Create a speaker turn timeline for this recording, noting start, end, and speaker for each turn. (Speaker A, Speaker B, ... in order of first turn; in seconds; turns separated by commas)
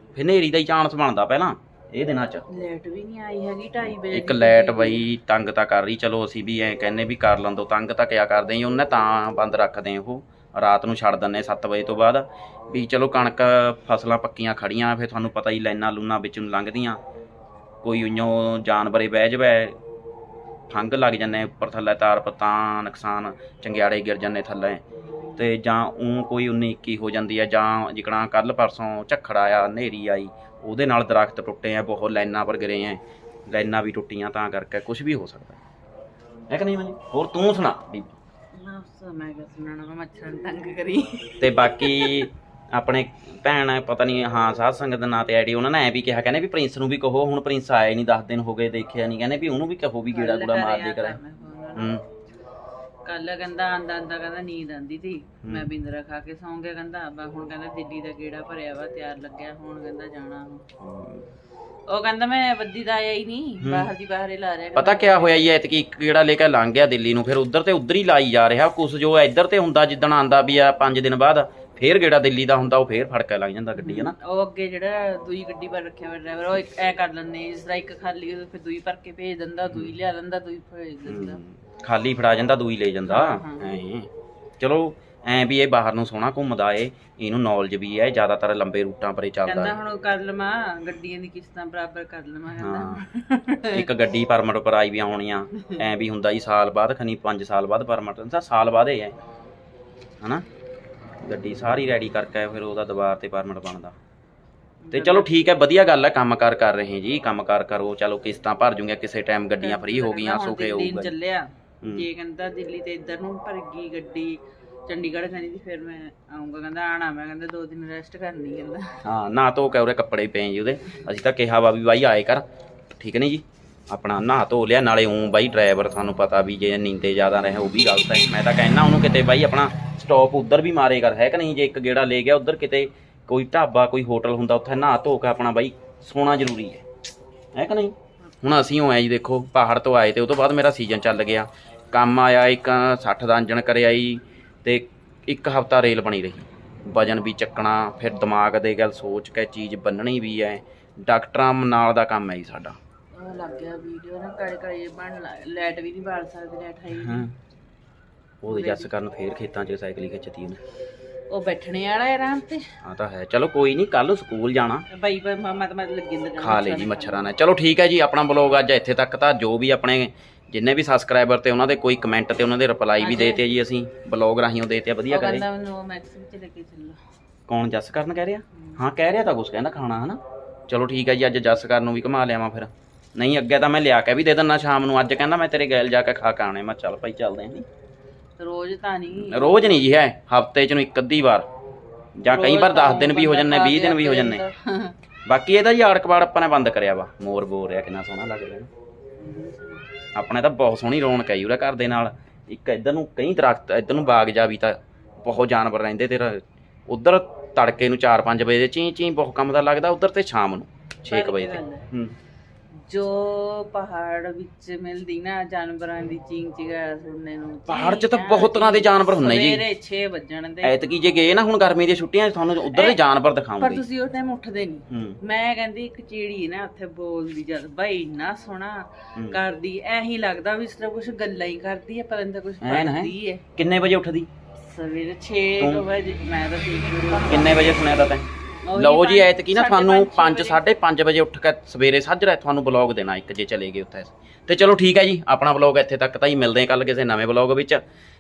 Speaker A: 0.2-2.5, Speaker B: 2.5-5.1, Speaker A: 4.0-17.0, Speaker A: 17.8-19.8, Speaker A: 20.7-24.8, Speaker B: 25.0-25.5, Speaker A: 25.4-35.6, Speaker A: 36.5-38.2, Speaker B: 38.5-42.3, Speaker A: 41.4-51.2, Speaker B: 50.1-52.0, Speaker A: 51.8-52.0, Speaker B: 53.0-60.6, Speaker A: 55.4-55.7, Speaker A: 60.8-61.3, Speaker B: 61.9-65.5, Speaker A: 63.6-63.9, Speaker A: 64.8-74.2, Speaker B: 73.8-81.4, Speaker A: 81.1-89.8, Speaker B: 83.1-83.8, Speaker B: 89.5-93.9, Speaker A: 92.6-93.1, Speaker A: 93.7-99.2, Speaker B: 95.6-95.9, Speaker A: 100.2-100.5, Speaker A: 101.2-104.0, Speaker B: 104.8-105.3, Speaker A: 104.9-111.1, Speaker B: 109.6-119.0, Speaker A: 119.0-136.8, Speaker A: 137.6-152.8, Speaker B: 153.1-157.3, Speaker A: 156.9-157.4, Speaker A: 158.4-160.6, Speaker B: 158.5-158.9, Speaker B: 161.3-162.7, Speaker A: 162.8-164.9, Speaker B: 164.9-167.3, Speaker A: 166.4-175.4, Speaker B: 173.0-173.4, Speaker B: 175.1-177.0, Speaker A: 177.5-187.7, Speaker B: 188.4-189.8, Speaker A: 189.1-191.5, Speaker A: 192.2-194.4, Speaker B: 192.3-195.0, Speaker A: 195.2-198.7, Speaker B: 199.2-199.9, Speaker A: 200.2-212.2, Speaker B: 211.1-211.9, Speaker B: 212.9-220.8, Speaker A: 217.7-219.6, Speaker A: 220.6-223.8, Speaker B: 222.7-223.0, Speaker B: 223.6-233.4, Speaker A: 224.9-225.2, Speaker A: 229.2-229.4, Speaker A: 232.6-234.3, Speaker B: 234.6-238.0, Speaker A: 235.6-235.8, Speaker A: 237.3-247.8, Speaker B: 238.7-240.6